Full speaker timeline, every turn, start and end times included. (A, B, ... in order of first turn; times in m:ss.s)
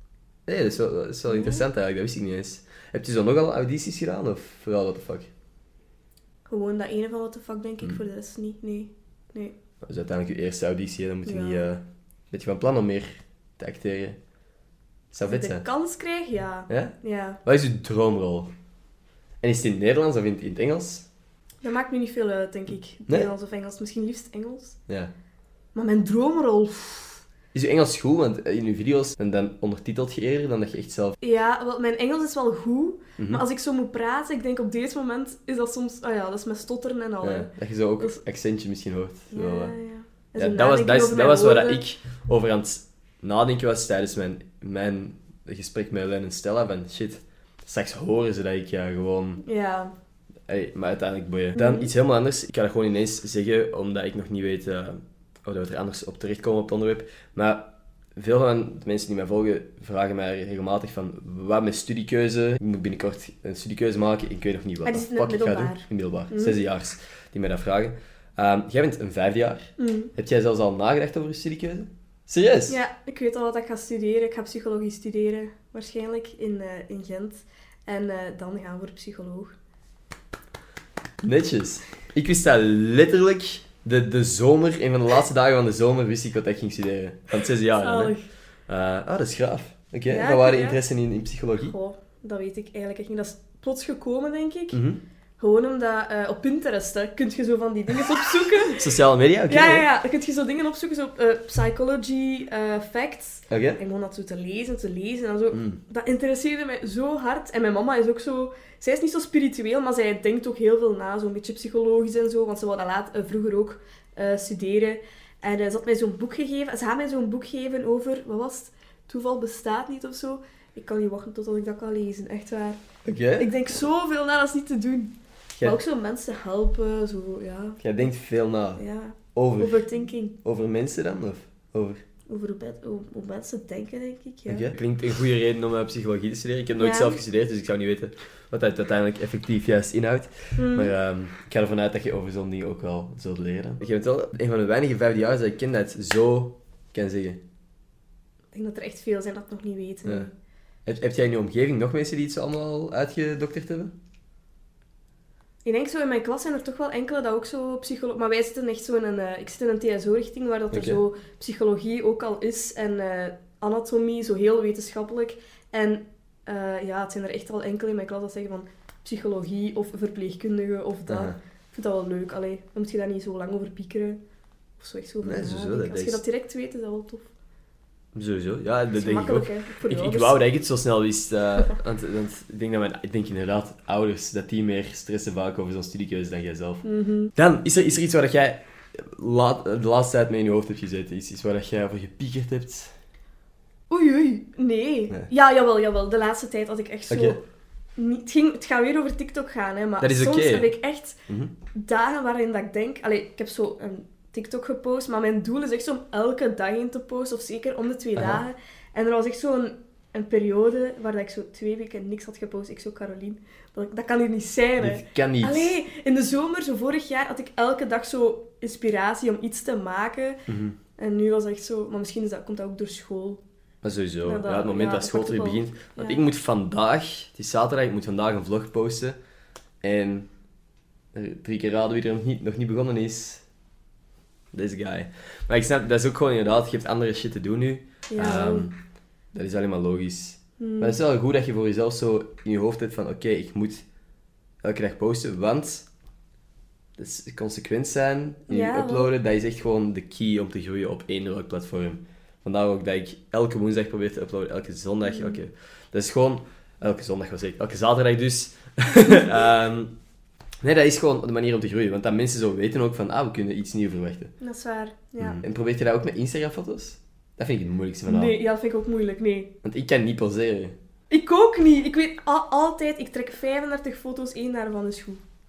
0:00.5-0:05.3 A
0:01.3-0:01.6 B
0:06.5-0:09.6 B
0:09.8-0:14.2 A
0:11.2-0:11.7 B
0:15.1-0:15.6 A
0:15.3-0:17.4 B
0:16.7-0:18.5 A
0:19.4-0:21.1 A
0:21.6-0:24.8 B
0:25.7-0:27.2 B
0:27.5-0:31.2 A
0:31.2-0:38.2 B
0:33.2-0:33.4 A
0:37.2-0:39.7 A
0:39.3-0:41.8 B
0:40.4-0:49.4 A
0:49.4-0:49.9 B
0:50.5-1:12.8 A
0:51.6-0:51.9 B
1:04.8-1:06.6 B
1:09.8-1:10.1 B
1:12.7-1:19.5 B
1:21.2-1:28.1 A
1:27.8-1:28.2 B
1:28.7-1:31.7 A
1:30.1-1:30.8 B
1:31.6-1:34.8 B
1:34.7-1:35.0 A
1:35.4-1:38.8 B
1:38.6-1:39.8 A
1:39.5-2:02.8 B
1:43.5-1:43.8 A
1:45.5-1:45.8 A
2:03.0-2:03.5 A
2:03.4-2:08.1 B
2:07.8-2:09.9 A
2:08.8-2:10.4 B
2:10.4-2:12.0 A
2:12.3-2:14.7 B
2:14.5-2:27.4 A
2:16.8-2:17.2 B
2:20.6-2:20.9 B
2:28.5-2:30.3 B
2:30.8-2:33.9 A
2:35.6-2:54.2 B
2:40.7-2:41.0 A
2:51.1-2:51.4 A
2:54.8-2:57.3 B
2:55.2-2:56.2 A
2:58.1-3:06.8 A
2:58.9-3:00.4 B
3:06.8-3:07.3 B
3:07.3-3:12.9 A
3:13.9-3:17.4 B
3:17.1-3:17.4 A
3:18.0-3:21.2 B
3:20.0-3:20.7 A
3:21.7-3:40.4 B
3:28.2-3:28.4 A
3:34.8-3:35.8 A
3:40.5-3:40.8 A
3:41.0-3:43.4 B
3:43.8-3:49.2 A
3:44.2-3:46.2 B
3:49.8-3:50.3 A
3:51.1-3:53.4 A
3:54.5-3:58.8 A
3:58.1-3:58.7 B
3:59.3-4:03.8 A
4:00.6-4:01.0 B
4:04.6-4:05.9 A
4:07.0-4:19.9 A
4:08.5-4:09.1 B
4:15.0-4:15.4 B
4:20.6-4:24.3 A
4:24.4-4:25.4 B
4:25.2-4:28.4 A
4:28.0-4:29.5 B
4:29.6-4:30.8 A
4:31.1-4:35.2 B